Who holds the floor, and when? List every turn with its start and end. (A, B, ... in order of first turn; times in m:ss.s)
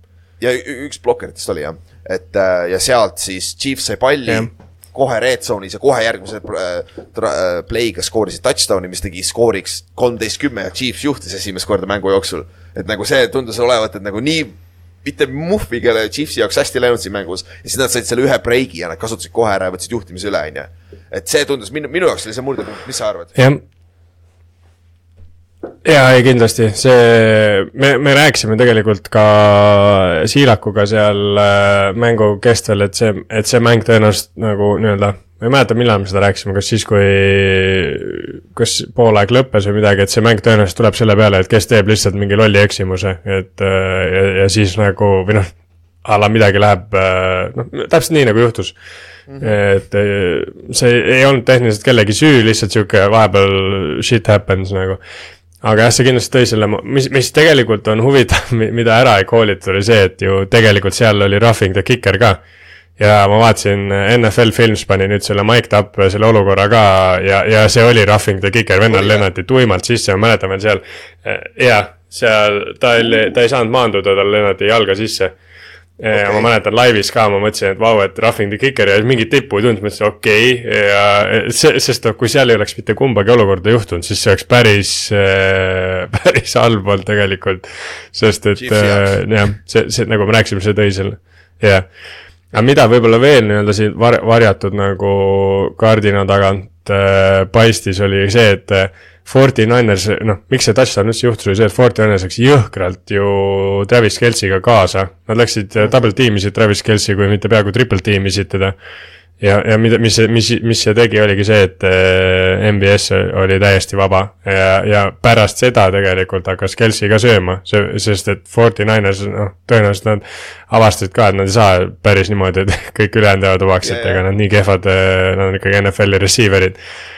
0:00.4-0:23.4 A
0:23.4-0:23.6 B
0:25.8-0:48.7 B
0:49.3-0:49.6 A
0:49.4-0:55.0 B
0:55.6-1:02.4 B
1:03.0-1:15.3 B
1:08.9-1:09.2 A
1:16.0-1:31.8 B
1:16.1-1:16.5 A
1:28.6-1:29.1 A
1:32.5-1:48.7 B
1:49.4-2:06.8 B
2:03.8-2:04.2 A